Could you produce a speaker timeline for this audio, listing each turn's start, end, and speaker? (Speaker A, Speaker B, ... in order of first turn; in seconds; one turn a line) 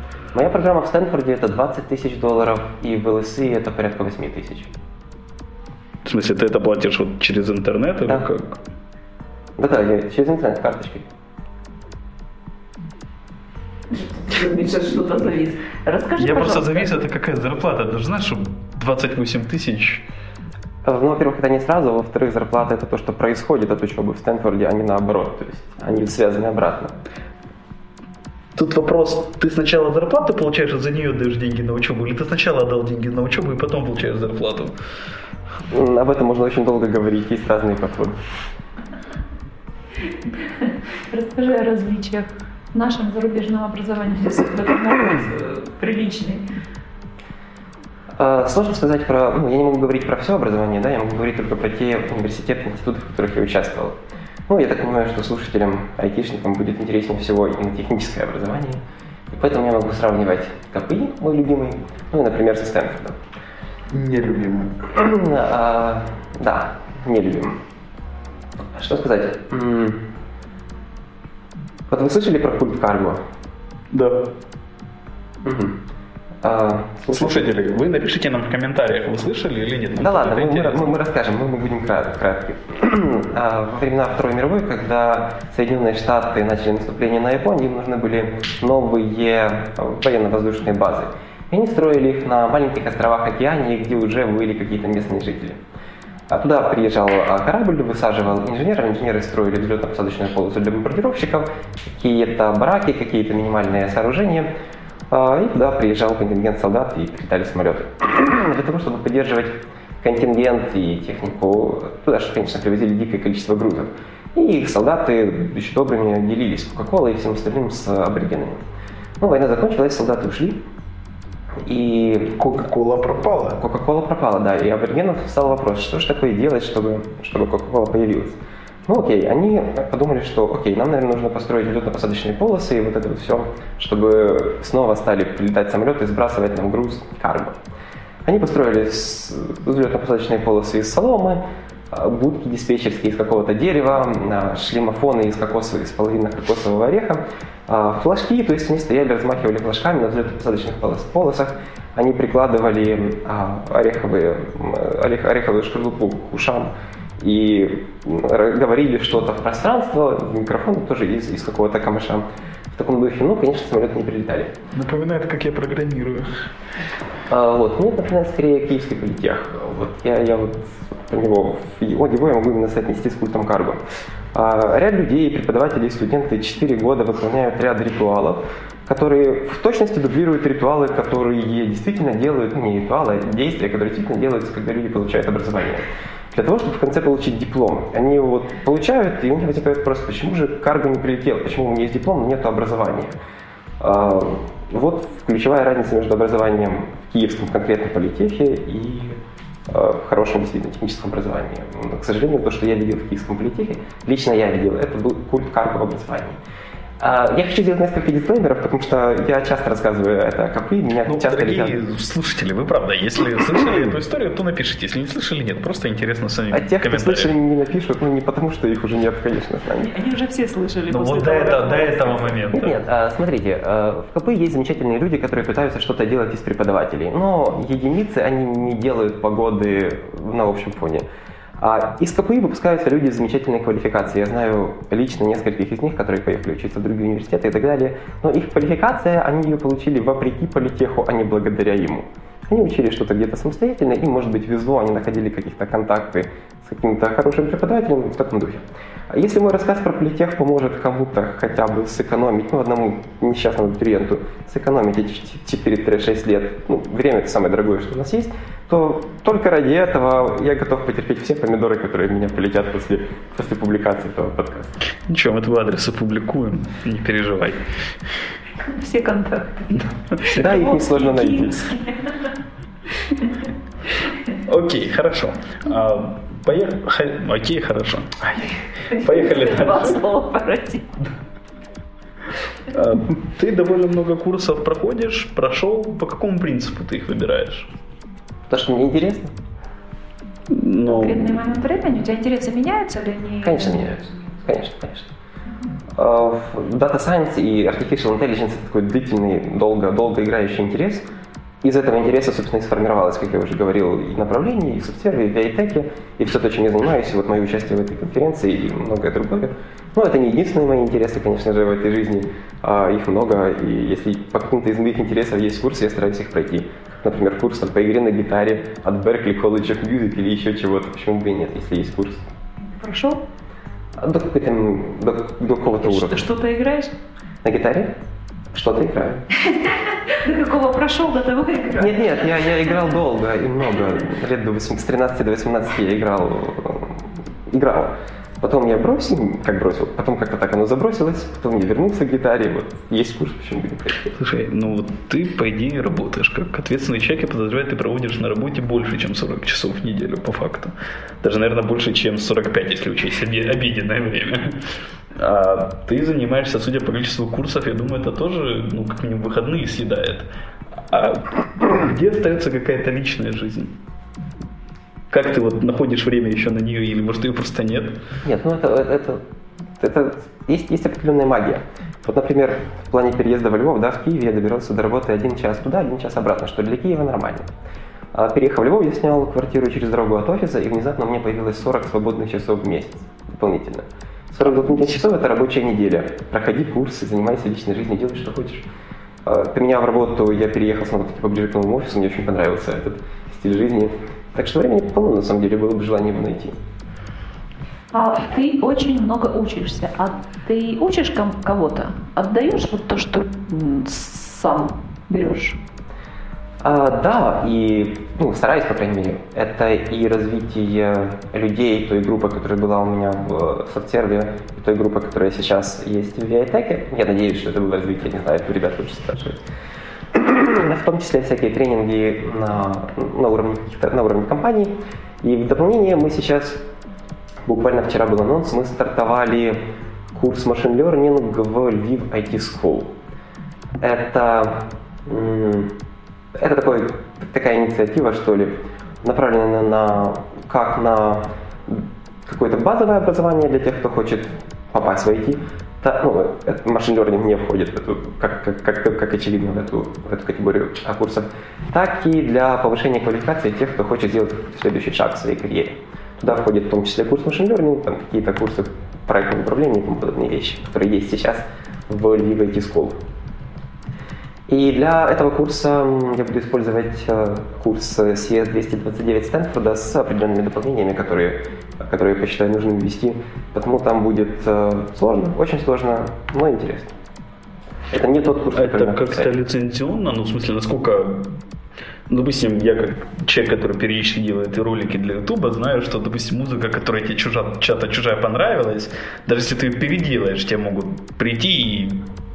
Speaker A: 0.3-4.7
Speaker B: 6.0-8.6
Speaker A: 9.6-11.1
Speaker C: 13.9-16.9
Speaker B: 16.2-20.0
Speaker A: 20.9-27.0
Speaker B: 28.6-34.8
Speaker A: 35.7-38.2
Speaker C: 40.6-46.4
Speaker A: 48.2-54.0
Speaker A: 54.5-58.8
Speaker A: 59.3-63.2
Speaker B: 63.9-64.8
Speaker A: 64.9-67.6
Speaker A: 68.8-70.1
Speaker A: 71.9-73.2
Speaker B: 73.9-74.3
Speaker A: 75.4-75.8
Speaker A: 76.4-77.7
Speaker B: 77.1-81.0
Speaker A: 80.0-95.6
Speaker A: 96.3-104.5
Speaker A: 105.1-118.6
Speaker A: 119.2-120.6
Speaker A: 121.6-122.4
Speaker B: 122.4-123.6
Speaker A: 123.6-137.6
Speaker A: 138.2-164.6
Speaker B: 164.7-166.5
Speaker A: 167.3-173.8
Speaker A: 174.3-193.2
Speaker A: 193.8-206.4
Speaker A: 207.0-211.8
Speaker B: 211.1-217.3
Speaker A: 216.5-219.9
Speaker C: 219.8-222.5
Speaker B: 220.9-222.8
Speaker A: 222.5-231.1
Speaker A: 231.6-264.7
Speaker B: 265.1-267.6
Speaker C: 268.6-272.4
Speaker A: 270.3-271.6
Speaker C: 273.1-273.4
Speaker B: 274.4-280.0
Speaker C: 278.9-280.9
Speaker B: 282.7-287.7
Speaker A: 288.5-289.3
Speaker B: 290.5-291.4
Speaker C: 290.9-294.0
Speaker A: 293.4-295.1
Speaker A: 295.9-301.0
Speaker A: 301.6-322.2
Speaker C: 322.7-323.2
Speaker A: 324.0-326.3
Speaker C: 325.8-326.9
Speaker A: 327.4-327.9
Speaker A: 328.5-329.2
Speaker C: 329.5-332.4
Speaker A: 331.8-344.1
Speaker B: 344.1-360.3
Speaker B: 360.9-363.7
Speaker B: 365.1-368.0
Speaker A: 368.2-369.2
Speaker A: 369.8-377.5
Speaker A: 378.1-388.7
Speaker A: 389.2-396.6
Speaker C: 397.9-405.6
Speaker A: 406.6-419.4
Speaker A: 420.1-426.6
Speaker A: 427.5-429.6
Speaker A: 430.1-432.9
Speaker A: 433.8-435.8
Speaker A: 436.3-463.0
Speaker A: 464.5-476.9
Speaker A: 477.9-479.3
Speaker B: 478.6-481.4
Speaker B: 482.1-492.1